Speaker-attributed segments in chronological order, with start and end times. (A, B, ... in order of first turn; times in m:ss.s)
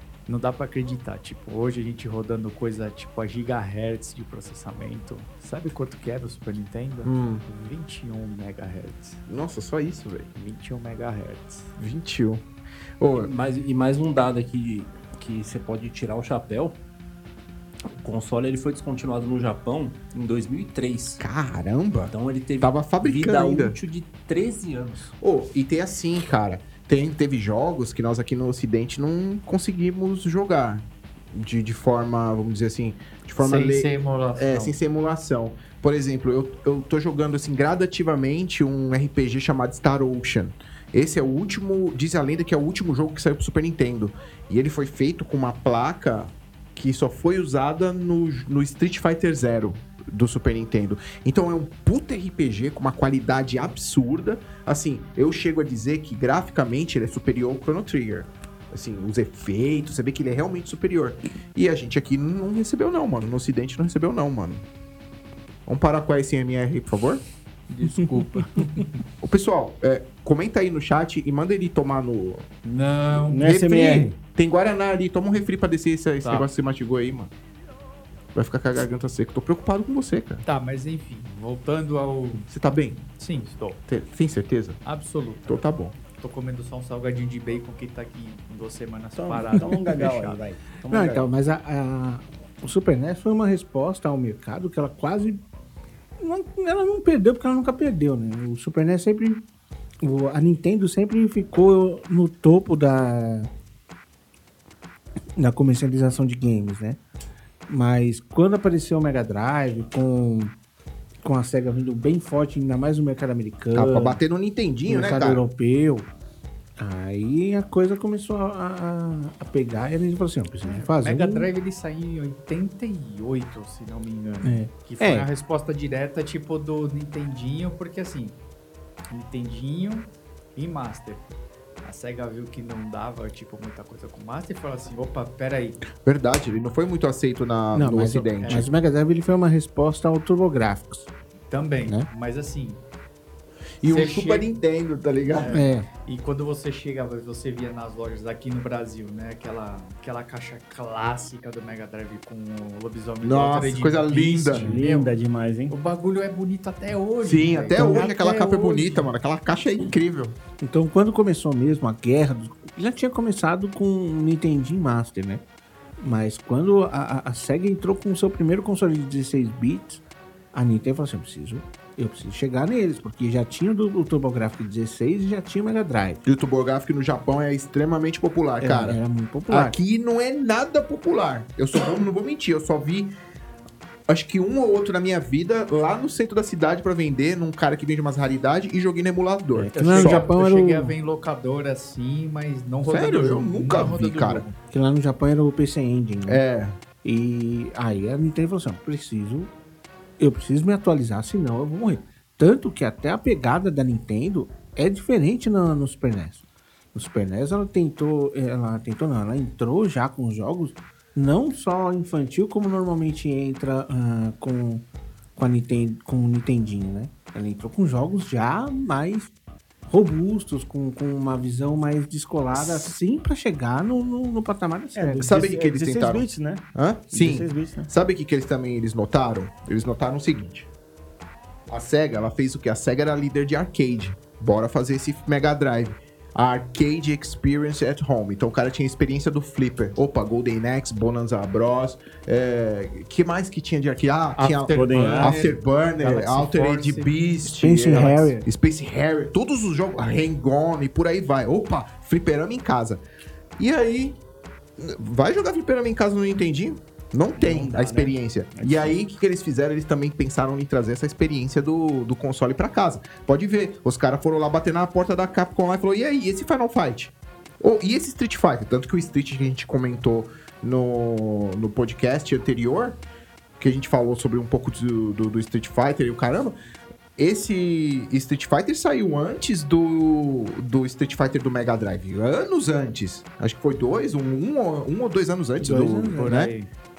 0:00.3-0:09.2 A
0:07.0-0:07.4 B
0:09.3-0:10.3 B
0:10.4-0:11.7 A
0:11.8-0:12.4 B
0:13.0-0:13.3 B
0:13.1-0:16.8 C
0:18.0-0:21.2 C
0:21.2-0:23.8 B
0:22.1-0:25.1 C
0:25.2-1:04.6 B
0:33.4-0:34.8 A
1:05.6-1:07.2 B
1:07.7-1:09.0 A
1:09.2-1:12.5 B
1:12.6-1:13.5 A
1:13.3-1:14.1 D
1:13.4-1:17.3 B
1:18.4-1:20.4 B
1:20.4-1:22.5 A
1:22.5-1:23.0 B
1:23.2-1:23.8 A
1:23.9-1:24.8 B
1:24.8-1:30.4 A
1:25.5-1:26.0 B
1:29.2-1:31.3 D
1:30.9-1:35.4 E
1:36.2-1:39.4 E
1:40.0-1:43.5 E
1:45.4-1:47.0 E
1:47.7-1:50.6 E
1:51.2-1:54.2 E
1:53.7-1:55.4 B
1:54.9-1:56.1 E
1:56.8-2:01.5 E
2:00.6-2:08.4 A
2:04.4-2:05.3 E
2:09.1-2:11.2 A
2:11.8-2:15.8 A
2:16.0-2:18.7 B
2:17.8-2:21.1 E
2:18.4-2:18.7 A
2:21.5-2:22.8 A
2:23.8-2:25.5 B
2:23.8-2:24.5 A
2:25.4-2:35.2 A
2:25.5-2:25.9 E
2:33.2-2:34.7 B
2:34.5-2:35.7 D
2:35.7-2:39.1 A
2:37.2-2:40.4 B
2:40.6-2:45.4 E
2:46.0-2:50.0 E
2:50.5-2:56.2 E
2:56.2-3:03.1 B
2:58.6-2:59.8 E
3:04.1-3:10.3 B
3:09.7-3:14.6 A
3:09.8-3:11.0 E
3:12.9-3:14.4 B
3:14.7-3:16.4 E
3:16.2-3:16.8 B
3:17.0-3:19.5 E
3:20.2-3:26.4 E
3:26.9-3:34.8 E
3:35.4-3:39.3 E
3:39.9-3:45.4 E
3:44.9-3:47.9 D
3:45.2-3:50.7 B
3:51.7-4:13.0 B
4:04.4-4:07.1 A
4:04.8-4:05.4 D
4:07.5-4:08.4 E
4:13.6-4:14.2 B
4:14.8-4:33.0 B
4:17.4-4:19.0 D
4:33.6-4:36.6 B
4:37.2-4:46.5 B
4:45.6-4:46.5 E
4:46.2-4:46.7 A